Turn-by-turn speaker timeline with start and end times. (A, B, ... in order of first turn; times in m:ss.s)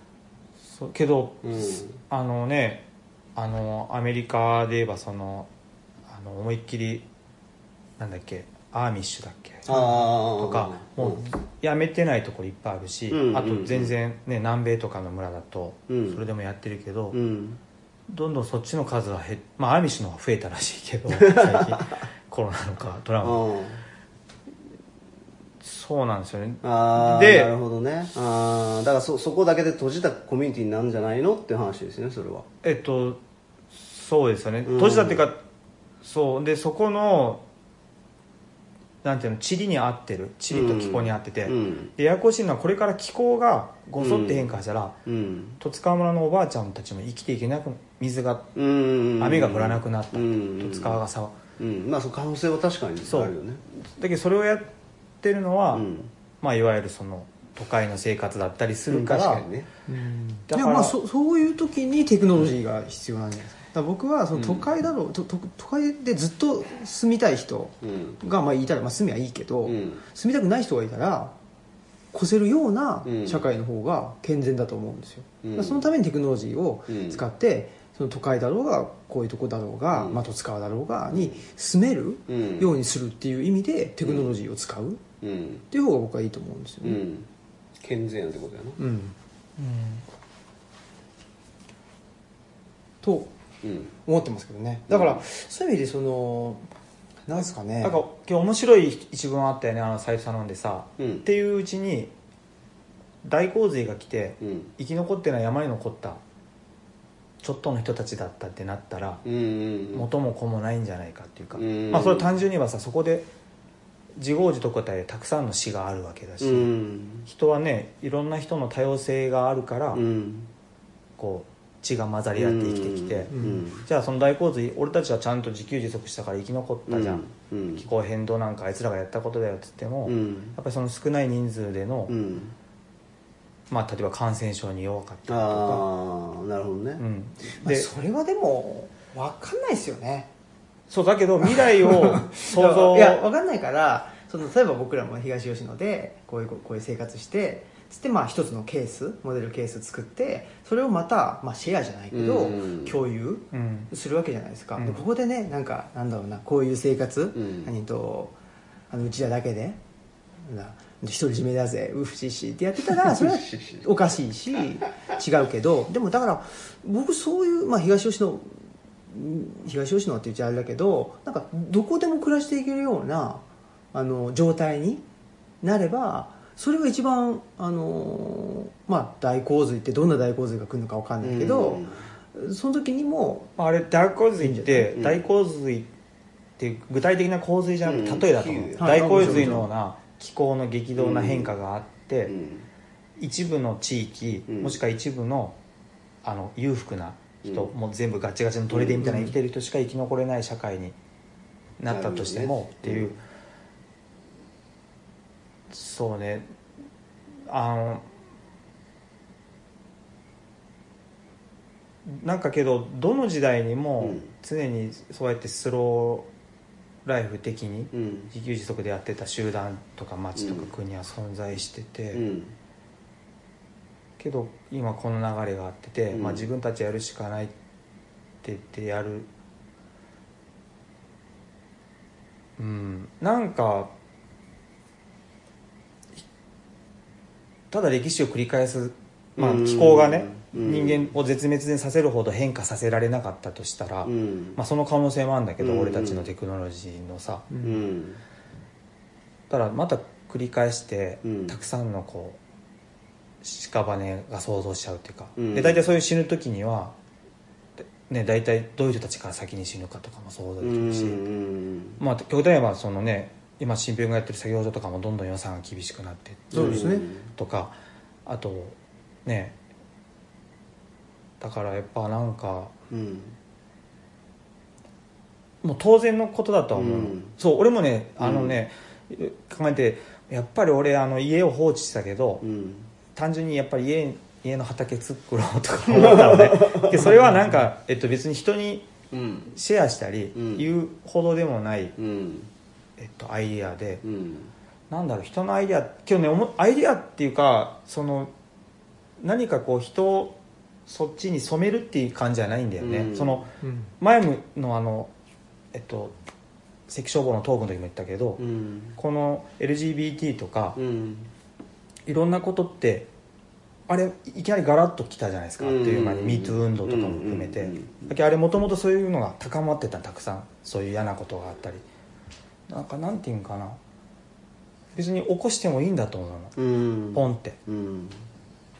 0:00.7-0:05.5 A
0:01.4-0:01.9 B
0:06.1-0:07.1 A
0:08.0-0:17.2 A
0:09.6-0:11.2 B
0:09.7-0:10.0 C
0:13.1-0:13.9 B
0:15.9-0:16.2 B
0:17.1-0:17.6 B
0:18.1-0:23.4 A
0:21.1-0:21.8 B
0:23.2-0:23.8 B
0:25.6-0:27.5 A
0:26.6-0:32.5 B
0:32.6-0:33.2 A
0:33.7-0:35.4 A
0:34.6-0:35.2 B
0:36.0-0:37.4 A
0:39.0-0:45.0 A
0:40.5-0:41.9 B
0:44.0-0:44.5 B
0:45.0-0:45.6 B
0:45.6-0:48.5 A
0:48.5-0:51.0 B
0:49.2-0:51.4 A
0:51.6-0:53.6 B
0:53.1-0:53.3 A
0:53.8-0:54.7 A
0:55.2-0:59.4 A
0:55.7-0:56.1 B
0:58.9-0:59.7 B
0:59.9-1:11.3 C
1:00.5-1:01.0 A
1:04.3-1:04.7 B
1:07.8-1:08.2 B
1:09.6-1:10.0 B
1:12.1-1:25.0 C
1:13.0-1:13.5 B
1:15.4-1:15.9 B
1:16.9-1:17.2 B
1:19.9-1:20.2 B
1:21.1-1:21.4 B
1:22.3-1:22.7 B
1:24.0-1:24.3 B
1:25.2-1:25.6 B
1:25.7-1:27.0 C
1:26.8-1:27.3 B
1:27.8-1:28.8 B
1:28.8-1:29.1 C
1:29.6-1:30.0 A
1:33.0-1:33.3 C
1:33.6-1:33.9 B
1:34.0-1:36.6 C
1:34.9-1:35.2 B
1:37.3-1:38.0 C
1:37.8-1:42.1 A
1:41.0-1:41.2 B
1:43.2-1:46.2 A
1:44.4-1:44.7 B
1:47.4-1:49.2 A
1:49.2-1:50.1 B
1:49.9-1:53.3 A
1:51.5-1:52.3 B
1:54.2-1:56.7 A
1:56.4-1:57.3 B
1:57.2-2:00.0 A
1:59.9-2:00.5 B
2:01.2-2:12.2 A
2:02.4-2:03.8 B
2:03.3-2:03.7 C
2:06.9-2:07.8 B
2:10.0-2:10.6 B
2:12.1-2:12.6 B
2:13.7-2:15.9 A
2:15.3-2:17.0 B
2:17.0-2:17.9 A
2:17.6-2:20.3 C
2:20.9-2:23.2 A
2:21.6-2:38.3 C
2:32.1-2:33.0 B
2:33.5-2:33.9 A
2:34.8-2:35.0 A
2:37.4-2:37.7 B
2:38.9-2:39.8 C
2:40.4-2:48.5 C
2:43.2-2:43.8 B
2:49.1-2:55.0 C
2:55.6-3:03.5 C
3:01.2-3:02.0 B
3:03.6-3:05.9 A
3:04.4-3:04.9 C
3:04.9-3:05.2 B
3:06.6-3:12.3 A
3:07.8-3:09.7 B
3:08.8-3:09.6 C
3:11.0-3:11.5 B
3:12.3-3:12.7 B
3:13.2-3:15.6 A
3:14.5-3:14.8 B
3:16.2-3:21.0 A
3:17.4-3:17.7 B
3:18.7-3:19.2 B
3:19.0-3:19.3 C
3:21.8-3:23.2 A
3:21.9-3:23.2 B
3:25.7-3:26.5 A
3:27.5-3:28.1 A
3:32.0-3:36.3 A
3:37.0-3:42.3 A
3:37.9-3:38.3 B
3:40.4-3:40.7 B
3:42.1-3:42.5 B
3:44.2-3:47.5 A
3:46.1-3:46.5 B
3:48.4-3:49.3 A
3:52.6-3:53.9 A
3:57.7-4:07.5 A
3:59.4-4:01.1 B
4:04.0-4:04.6 B
4:05.6-4:06.3 B
4:07.5-4:07.8 C
4:07.6-4:08.2 B
4:09.5-4:12.4 A
4:11.2-4:11.6 B
4:13.4-4:16.9 A
4:15.4-4:15.8 B
4:18.0-4:21.2 A
4:20.6-4:22.0 B
4:22.0-4:27.7 A
4:26.5-4:27.1 C
4:26.5-4:27.3 B
4:28.2-4:29.6 A
4:31.4-4:32.7 A
4:32.9-4:33.3 B
4:35.6-4:42.4 A
4:36.7-4:37.3 B
4:38.2-4:38.6 B
4:42.4-4:42.9 B
4:43.1-4:48.9 A
4:45.9-4:47.1 B
4:47.1-4:47.5 C
4:49.1-4:49.5 B
4:49.5-4:52.0 A
4:50.4-4:50.6 B
4:52.0-4:52.5 B
4:53.0-4:54.0 A
4:54.0-4:54.5 B
4:54.9-4:58.3 A
4:59.2-5:03.5 A
5:02.8-5:03.4 B
5:03.6-5:03.9 C
5:04.0-5:05.1 A
5:05.7-5:06.1 A
5:06.9-5:08.4 A
5:08.4-5:09.0 B
5:09.0-5:10.8 A
5:10.8-5:11.3 B
5:12.0-5:13.1 A
5:13.9-5:21.8 A
5:15.6-5:18.1 B
5:22.7-5:23.8 A
5:24.9-5:26.5 A
5:26.6-5:28.2 B
5:27.1-5:27.6 A